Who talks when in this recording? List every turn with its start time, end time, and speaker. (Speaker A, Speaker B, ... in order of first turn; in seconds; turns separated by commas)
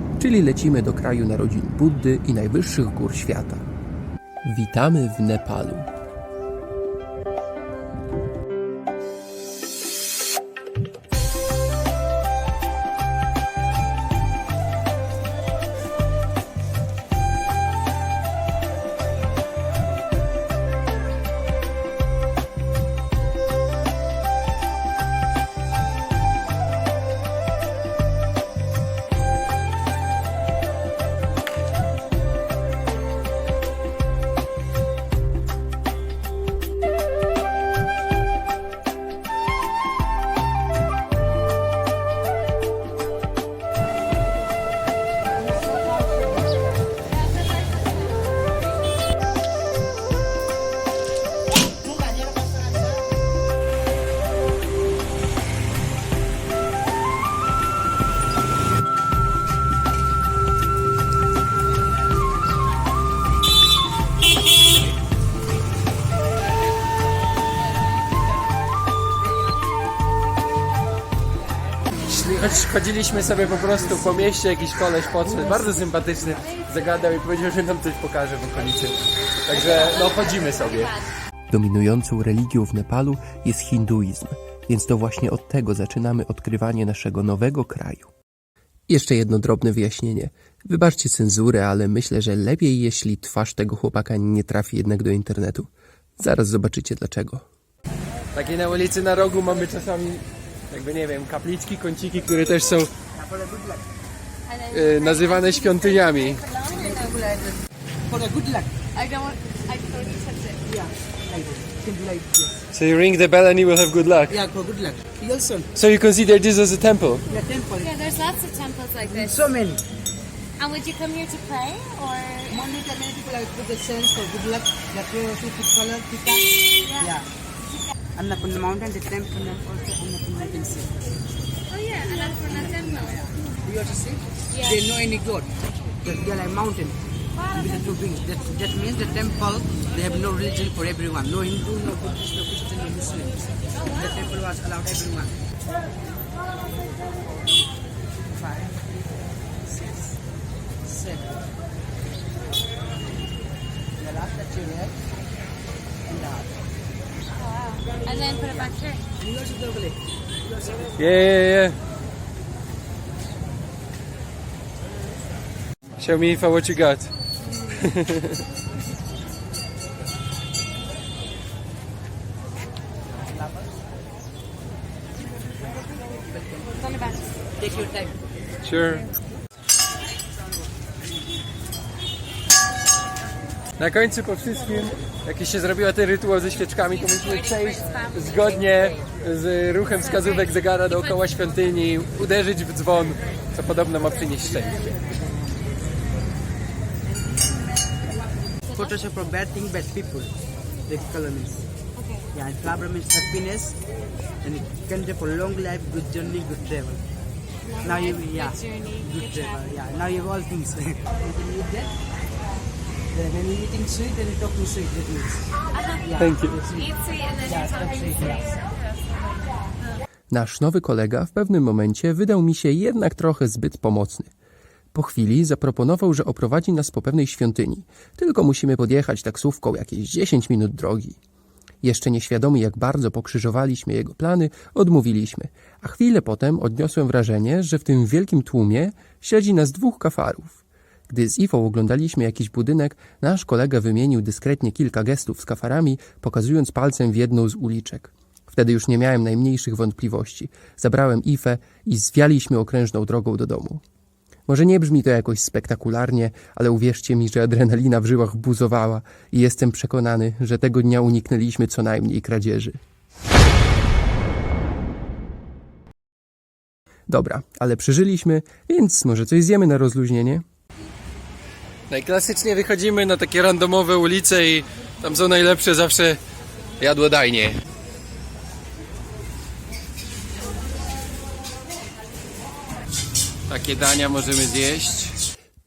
Speaker A: 0.2-3.6, Speaker A: 4.4-5.9, Speaker B: 45.5-46.4, Speaker B: 51.8-52.9, Speaker C: 72.1-81.0, Speaker A: 81.5-88.1, Speaker A: 88.9-97.4, Speaker C: 98.3-102.9, Speaker D: 103.1-103.8, Speaker B: 104.5-106.8, Speaker C: 104.7-106.4, Speaker D: 106.5-108.8, Speaker B: 108.9-110.6, Speaker D: 110.6-112.6, Speaker C: 112.7-114.4, Speaker D: 114.3-115.7, Speaker C: 115.8-117.2, Speaker D: 117.3-118.0, Speaker B: 117.8-119.5, Speaker D: 119.0-119.8, Speaker B: 120.6-122.7, Speaker D: 122.5-127.3, Speaker D: 128.2-131.0, Speaker B: 131.7-133.5, Speaker D: 132.1-135.5, Speaker B: 134.5-134.9, Speaker D: 136.0-145.4, Speaker D: 148.3-148.8, Speaker D: 149.7-150.1, Speaker D: 150.8-151.4, Speaker D: 154.0-154.9, Speaker D: 156.1-156.6, Speaker B: 157.3-159.0, Speaker D: 158.5-161.1, Speaker C: 161.0-161.8, Speaker C: 166.0-167.1, Speaker C: 167.7-168.4, Speaker D: 173.3-173.7, Speaker D: 176.3-176.9, Speaker B: 176.9-177.2, Speaker D: 177.6-178.2, Speaker C: 178.6-179.1, Speaker C: 183.8-194.9, Speaker B: 187.3-188.2, Speaker D: 194.9-195.5, Speaker B: 198.7-199.0, Speaker D: 198.7-200.3, Speaker D: 200.9-201.7, Speaker B: 202.0-202.3, Speaker D: 202.3-203.8, Speaker D: 204.4-207.0, Speaker B: 207.7-209.8, Speaker D: 207.8-212.0, Speaker D: 213.1-218.6, Speaker C: 216.2-216.6, Speaker A: 220.3-224.3, Speaker A: 224.9-231.2, Speaker A: 231.8-253.8, Speaker A: 254.5-262.8, Speaker A: 267.1-270.4, Speaker C: 271.9-276.2, Speaker C: 276.8-277.6, Speaker C: 283.5-285.1